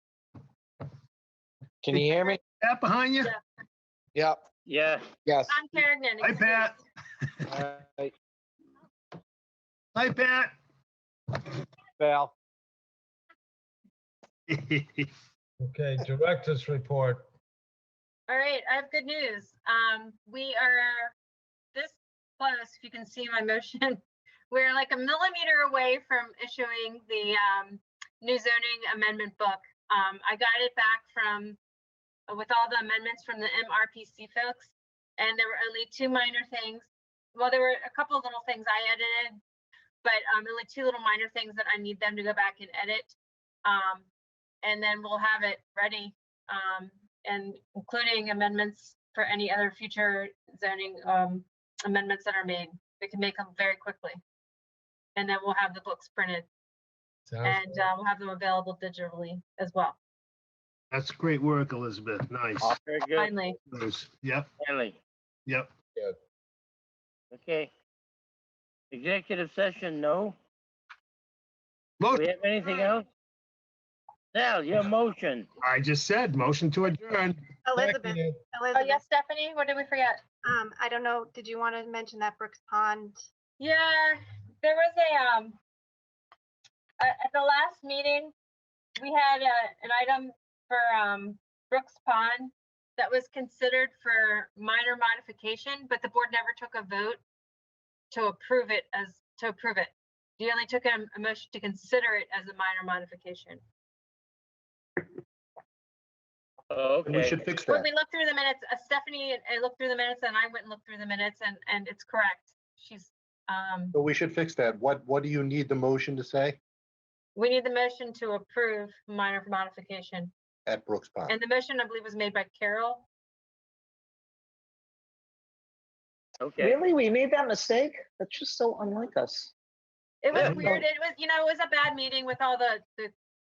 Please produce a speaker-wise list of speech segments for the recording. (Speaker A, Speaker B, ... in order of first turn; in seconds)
Speaker A: 1.8-2.4, 4.1-4.4, 5.2-5.6, 7.5-8.1, 12.0-12.3
Speaker B: 1.9-3.3, 6.2-6.8, 9.9-10.5, 14.5-15.1, 60.9-62.8, 63.7-64.5, 72.0-72.3, 75.6-77.4
Speaker C: 4.7-5.0, 62.6-63.3, 64.6-65.0, 67.3-67.7, 68.9-70.3, 72.1-73.0, 74.3-75.5, 106.7-107.5, 126.4-126.8, 130.3-130.6
Speaker D: 5.5-6.7, 18.3-21.1, 21.7-31.6, 32.3-39.4, 40.0-44.1, 44.6-54.2, 55.1-56.5, 57.4-60.0, 63.1-63.5, 78.7-80.2, 83.6-85.6, 87.0-88.3, 89.0-97.2, 98.1-103.6, 107.7-113.9, 117.3-120.3, 121.3-123.0, 130.2-133.1
Speaker E: 15.6-17.2, 57.3-57.9, 77.7-78.4
Speaker F: 77.7-79.0, 80.4-83.2
Speaker G: 107.0-107.8, 113.9-116.6, 120.7-121.3
Speaker H: 126.6-129.5, 130.5-130.8